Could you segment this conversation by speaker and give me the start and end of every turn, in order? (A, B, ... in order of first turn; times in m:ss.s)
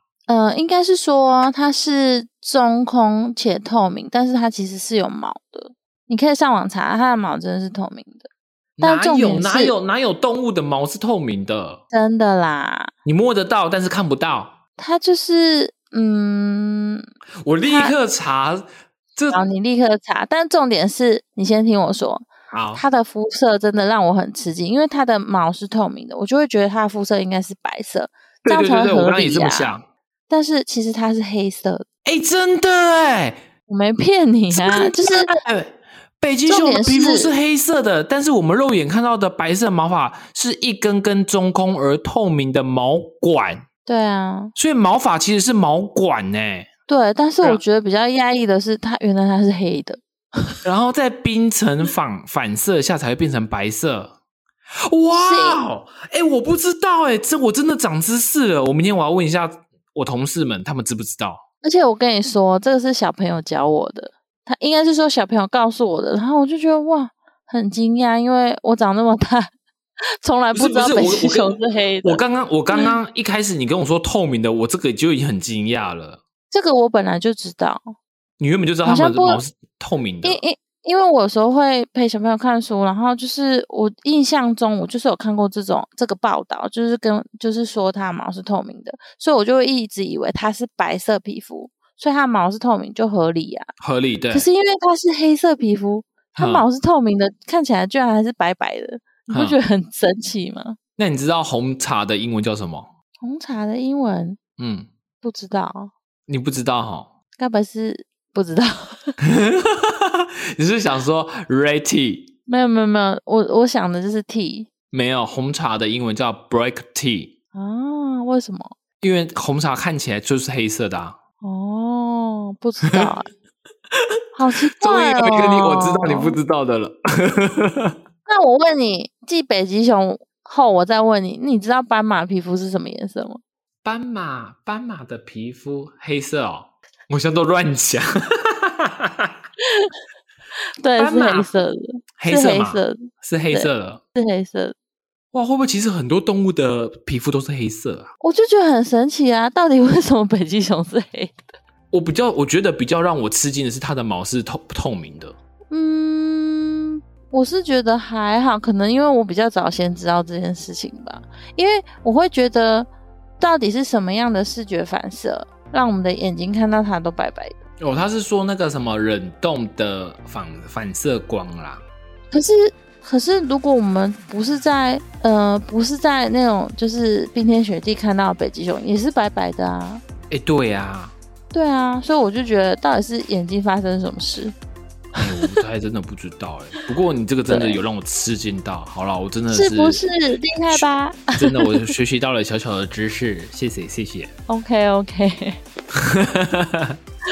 0:00.3-0:08.3 A
0:08.8-0:11.8 B
0:08.8-0:09.7 A
0:11.9-0:12.9 A
0:13.0-0:14.6 B
0:14.8-0:17.0 A
0:17.4-0:19.4 B
0:17.6-0:18.0 A
0:19.3-0:29.7 A
0:22.5-0:22.8 B
0:28.4-0:29.9 B
0:30.3-0:31.8 A
0:32.0-0:33.4 B
0:33.7-0:35.3 A
0:34.5-0:43.7 B
0:36.5-0:37.3 A
0:43.9-0:44.5 A
0:44.6-0:46.7 B
0:46.9-0:50.5 A
0:50.6-0:54.2 B
0:54.9-1:01.4 B
0:55.1-0:55.6 A
1:01.6-1:09.5 A
1:10.2-1:13.0 A
1:10.5-1:16.2 B
1:16.5-1:17.8 A
1:18.4-1:20.4 B
1:18.8-1:19.4 A
1:20.2-1:33.7 A
1:33.8-1:34.5 B
1:34.3-1:40.8 A
1:36.4-1:36.7 B
1:39.3-1:39.6 B
1:41.0-1:42.9 B
1:43.2-1:44.4 A
1:44.6-1:44.9 B
1:45.2-1:45.9 A
1:46.3-1:47.1 B
1:47.4-1:49.2 A
1:49.2-1:52.3 B
1:52.5-1:54.7 A
1:54.9-1:57.4 B
1:57.6-1:58.7 A
1:59.0-2:01.2 B
2:01.4-2:03.3 A
2:04.4-2:06.4 A
2:04.7-2:08.0 B
2:08.3-2:13.4 A
2:13.8-2:19.3 B
2:19.7-2:19.9 A
2:20.8-2:24.8 A
2:21.0-2:21.5 B
2:22.2-2:24.0 B
2:25.3-2:28.1 B
2:28.2-2:31.4 A
2:31.9-2:35.4 B
2:35.7-2:42.9 A
2:43.4-2:47.6 A
2:47.8-2:51.8 B
2:52.3-3:00.0 A
3:00.3-3:01.1 B
3:01.5-3:04.5 A
3:05.2-3:10.0 B
3:05.2-3:05.6 A
3:07.5-3:07.8 A
3:09.5-3:11.9 A
3:10.7-3:14.3 B
3:14.5-3:15.6 A
3:15.9-3:17.0 B